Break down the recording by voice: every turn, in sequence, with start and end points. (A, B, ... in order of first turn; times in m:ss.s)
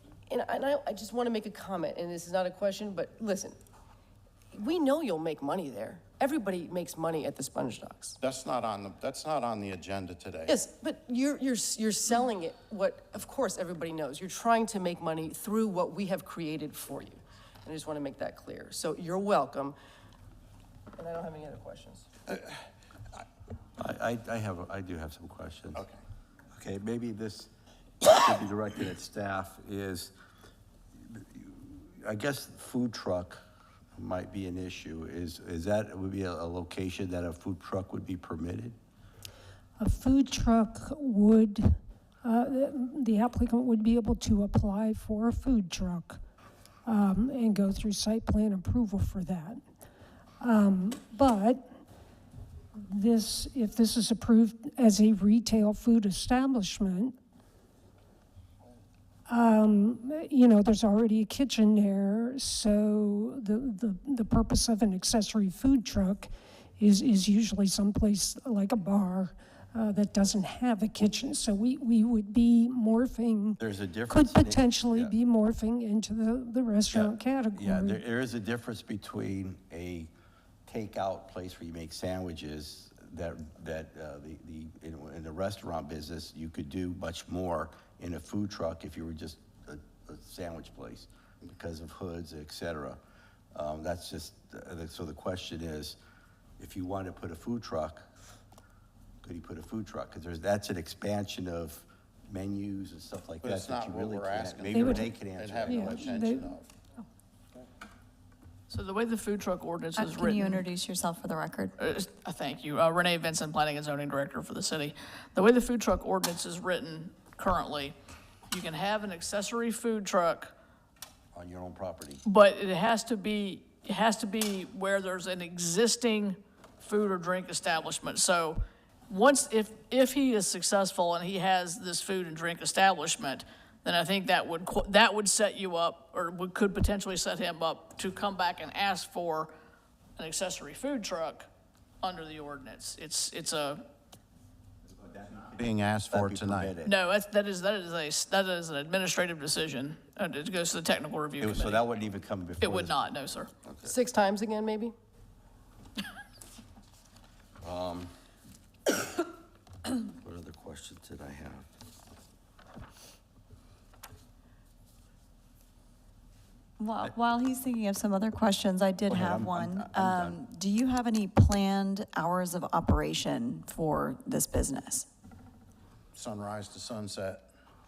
0:00.3-0:03.6 A
0:04.5-0:08.2 A
0:08.2-0:10.5 B
0:10.5-0:19.7 A
0:21.0-0:22.1 A
0:22.3-0:22.6 B
0:23.8-0:25.8 C
0:26.5-0:27.5 C
0:28.0-0:30.1 C
0:31.0-0:33.4 C
0:34.0-0:38.8 C
0:39.8-0:46.2 D
0:46.8-0:49.6 D
0:50.4-0:51.6 D
0:52.8-0:57.1 D
0:59.3-1:18.0 D
1:13.6-1:15.1 C
1:16.9-1:20.1 C
1:20.7-1:33.0 C
1:33.5-1:36.0 C
1:36.6-1:38.1 C
1:39.2-1:46.2 C
1:43.4-1:46.7 B
1:44.7-1:45.2 D
1:45.7-1:46.5 D
1:48.7-1:50.6 E
1:50.0-1:51.7 F
1:51.8-1:57.9 E
1:58.5-2:00.5 E
2:01.3-2:02.2 C
2:02.2-2:19.5 E
2:20.2-2:21.5 E
2:22.0-2:23.8 E
2:25.1-2:25.4 C
2:25.4-2:26.7 B
2:26.1-2:26.9 C
2:26.8-2:31.8 E
2:31.4-2:33.0 C
2:32.6-2:33.5 E
2:33.6-2:33.9 C
2:33.8-2:34.9 A
2:37.6-2:38.1 C
2:40.0-2:41.7 C
2:46.8-2:55.1 F
2:49.0-2:50.4 C
2:56.1-2:57.5 B